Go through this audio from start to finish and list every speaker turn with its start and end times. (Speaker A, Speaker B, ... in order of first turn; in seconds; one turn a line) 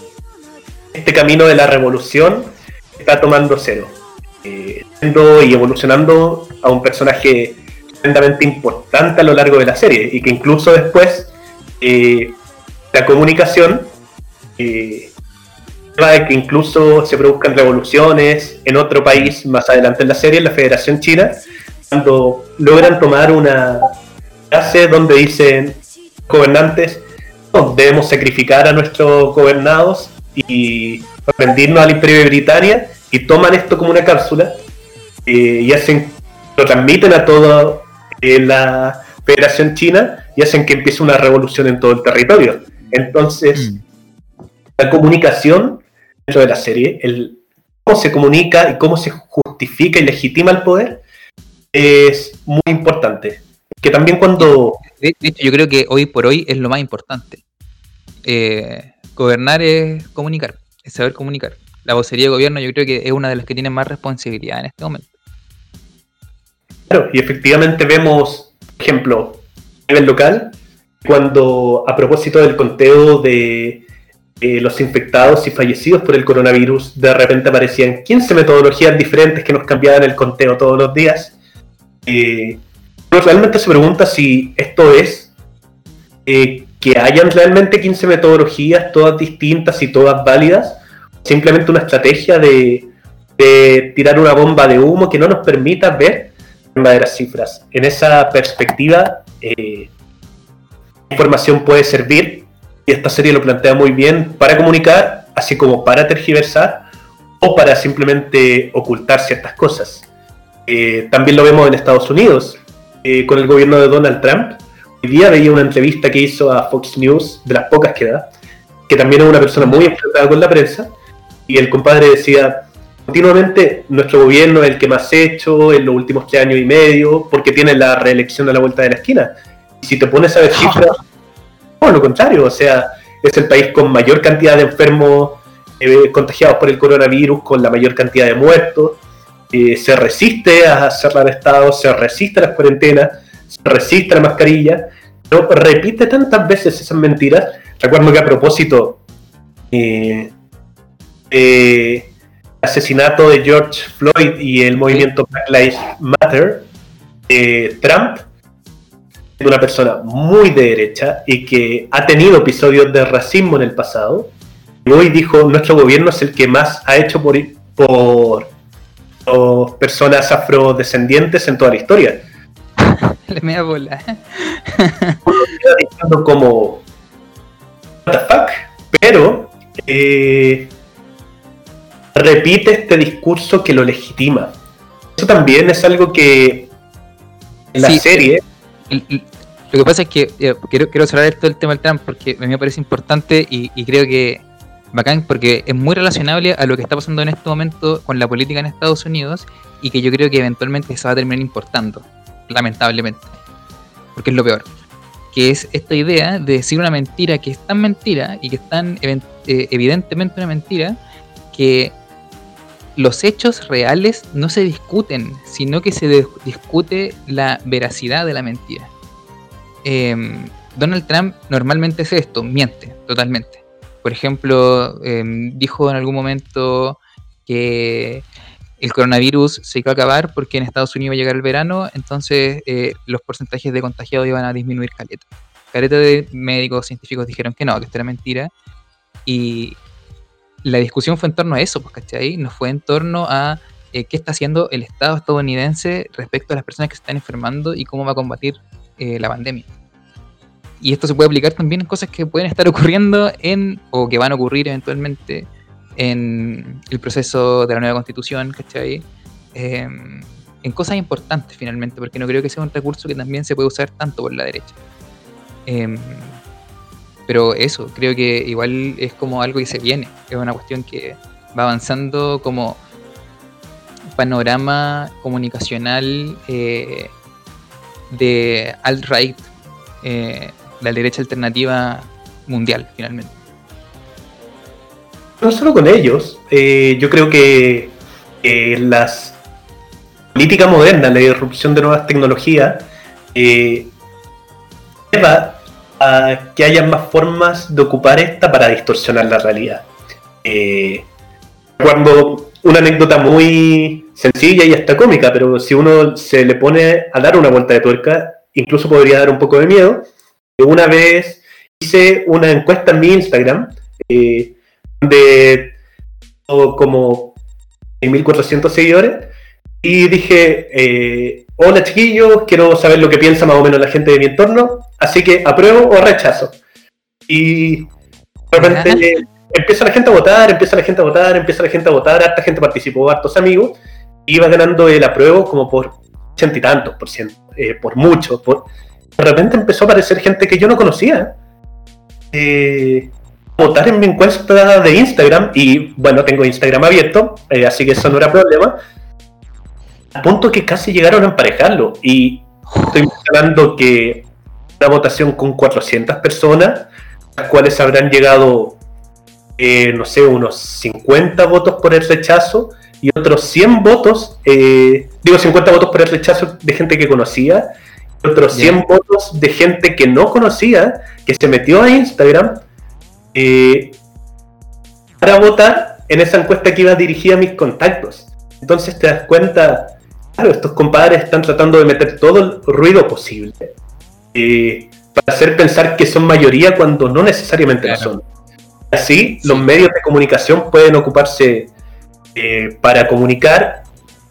Speaker A: 0.9-12.4
Speaker A: 12.9-13.9
Speaker A: 14.6-15.1
Speaker A: 16.0-23.9
Speaker A: 24.5-34.6
Speaker A: 35.2-43.7
Speaker B: 43.5-43.8
Speaker A: 44.8-51.0
Speaker A: 51.7-54.8
Speaker B: 54.4-57.4
Speaker B: 58.2-65.1
Speaker A: 66.9-73.8
Speaker A: 74.4-81.3
Speaker A: 82.0-85.3
Speaker A: 86.2-99.9
Speaker A: 101.1-106.8
Speaker A: 107.4-110.1
Speaker A: 110.7-118.3
Speaker A: 118.9-120.9
Speaker B: 119.5-119.8
Speaker A: 121.5-131.0
Speaker B: 130.6-130.8
Speaker A: 131.8-139.0
Speaker A: 139.5-149.0
Speaker A: 149.7-150.3
Speaker A: 151.3-152.1
Speaker A: 152.6-156.7
Speaker B: 154.8-155.1
Speaker A: 157.3-158.2
Speaker A: 159.4-164.3
Speaker A: 164.8-168.5
Speaker A: 169.3-172.2
Speaker B: 172.8-175.2
Speaker A: 175.3-176.8
Speaker A: 178.1-180.7
Speaker A: 182.1-184.6
Speaker A: 185.2-186.7
Speaker A: 187.7-188.4
Speaker B: 187.8-188.3
Speaker B: 188.9-203.4
Speaker B: 204.1-204.7
Speaker B: 205.3-211.0
Speaker B: 211.5-211.9
Speaker B: 212.9-218.9
Speaker B: 219.8-228.2
Speaker B: 228.8-238.5
Speaker B: 239.2-239.8
Speaker B: 240.6-249.7
Speaker B: 250.8-264.8
Speaker B: 265.7-266.4
Speaker B: 267.3-272.8
Speaker B: 274.1-277.1
Speaker B: 278.1-279.4
Speaker B: 280.0-283.3
Speaker A: 285.4-289.4
Speaker A: 290.3-293.9
Speaker A: 295.1-299.9
Speaker A: 300.4-301.1
Speaker A: 301.8-315.8
Speaker A: 316.5-317.4
Speaker A: 318.0-319.3
Speaker A: 319.8-326.6
Speaker A: 327.3-327.9
Speaker A: 328.5-341.4
Speaker B: 328.6-329.2
Speaker A: 342.3-348.8
Speaker A: 350.1-354.3
Speaker B: 352.8-353.1
Speaker A: 354.8-358.8
Speaker A: 359.6-367.7
Speaker A: 368.2-372.6
Speaker B: 368.5-368.8
Speaker A: 373.3-374.0
Speaker A: 375.2-383.7
Speaker A: 384.3-388.2
Speaker B: 387.8-388.1
Speaker A: 388.9-391.7
Speaker B: 389.4-389.7
Speaker A: 392.3-393.9